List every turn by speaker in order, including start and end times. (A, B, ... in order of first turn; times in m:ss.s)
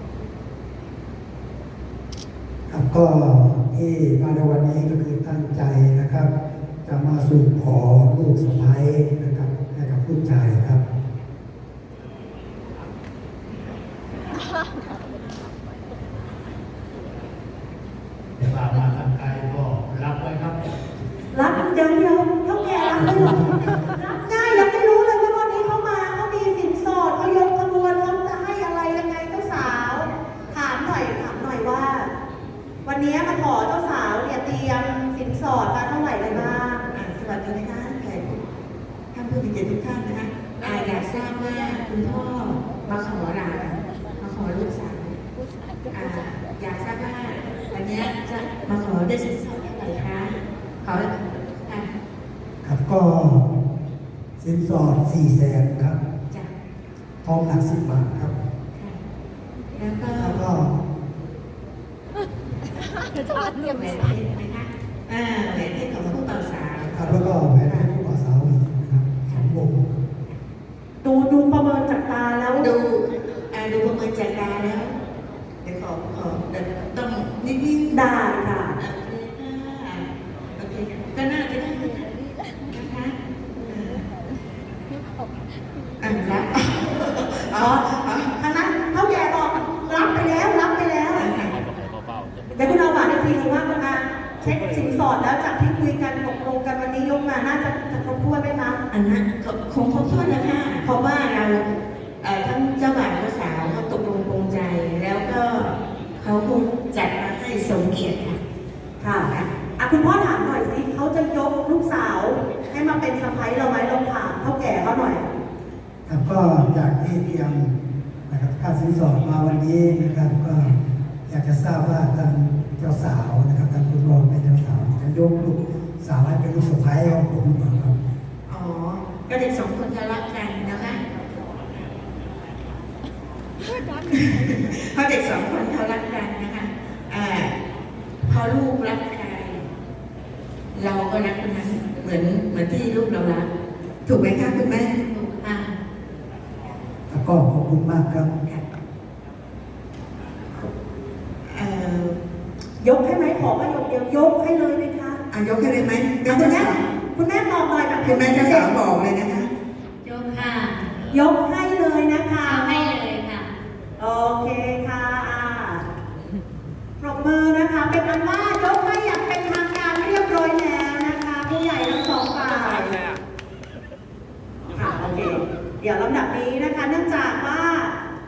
0:02.7-0:06.3 A
0:06.8-0:10.8 A
0:18.4-0:20.6 B
0:21.3-0:32.1 C
0:23.0-0:23.6 A
0:32.8-0:36.8 C
0:36.2-0:38.4 D
0:39.1-0:45.2 D
0:45.9-0:51.9 D
0:52.6-0:53.5 A
0:54.4-0:56.0 A
0:57.2-0:58.4 A
0:58.7-0:59.0 D
0:59.8-1:00.5 D
1:00.1-1:00.8 A
1:03.3-1:07.2 D
1:06.9-1:10.0 A
1:09.2-1:09.5 D
1:11.0-1:12.7 C
1:12.6-1:14.9 D
1:15.6-1:18.1 D
1:17.9-1:18.8 C
1:18.8-1:22.1 D
1:22.7-1:24.1 D
1:26.0-1:28.3 D
1:27.5-1:31.3 C
1:31.1-1:31.6 D
1:32.5-1:38.8 C
1:38.9-1:41.7 D
1:42.2-1:48.4 D
1:49.0-1:55.3 C
1:49.2-1:49.5 D
1:56.0-1:57.8 A
1:58.3-2:08.0 A
2:08.5-2:11.0 D
2:14.0-2:17.5 D
2:18.2-2:19.7 D
2:20.7-2:23.5 D
2:24.0-2:25.0 D
2:25.1-2:25.8 E
2:27.1-2:28.3 A
2:31.4-2:32.2 D
2:32.8-2:35.2 C
2:35.3-2:36.8 D
2:36.2-2:38.7 C
2:38.0-2:39.5 D
2:40.0-2:41.0 E
2:41.1-2:43.0 C
2:42.4-2:43.5 E
2:44.0-2:45.8 C
2:47.0-2:53.0 C
2:54.7-2:57.9 C